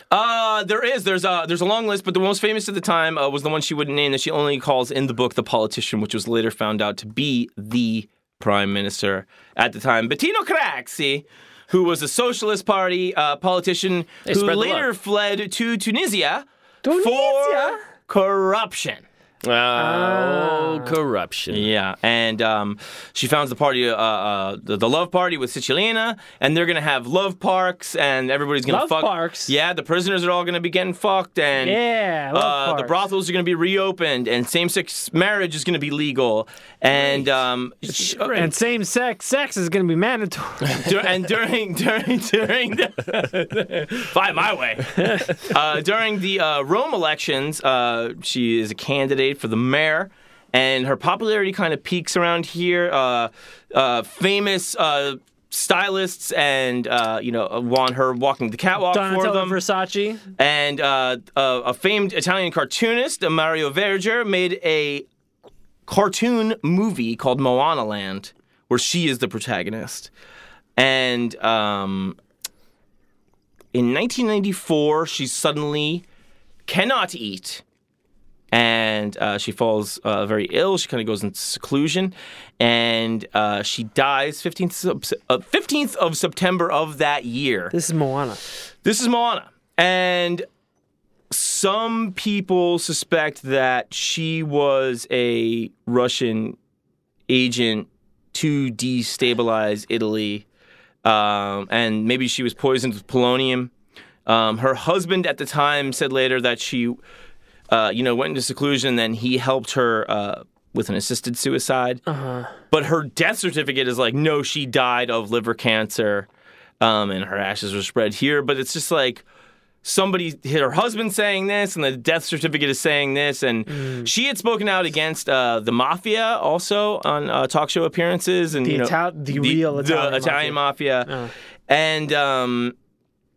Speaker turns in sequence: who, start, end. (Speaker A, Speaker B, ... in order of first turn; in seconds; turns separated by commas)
Speaker A: 0.1-19.0, Speaker B: 14.2-14.8, Speaker C: 16.8-17.8, Speaker B: 19.4-21.7, Speaker C: 19.7-20.9, Speaker A: 21.5-31.8, Speaker C: 28.7-29.5, Speaker C: 31.6-33.0, Speaker A: 32.3-38.5, Speaker C: 37.9-40.9, Speaker A: 40.7-59.6, Speaker C: 45.0-45.3, Speaker C: 58.9-60.2, Speaker A: 60.4-65.0, Speaker A: 65.9-70.1, Speaker A: 70.8-72.2, Speaker A: 73.7-76.0, Speaker A: 76.7-77.6, Speaker A: 78.5-87.7, Speaker C: 87.7-88.4, Speaker A: 88.8-90.5, Speaker A: 91.3-96.6, Speaker A: 97.3-100.4, Speaker A: 101.0-103.7, Speaker A: 104.2-107.0, Speaker A: 107.7-112.0, Speaker C: 112.1-112.5, Speaker A: 112.7-116.3, Speaker A: 116.8-119.2, Speaker A: 119.8-131.1, Speaker C: 123.7-124.1, Speaker C: 128.6-131.3, Speaker A: 131.7-132.7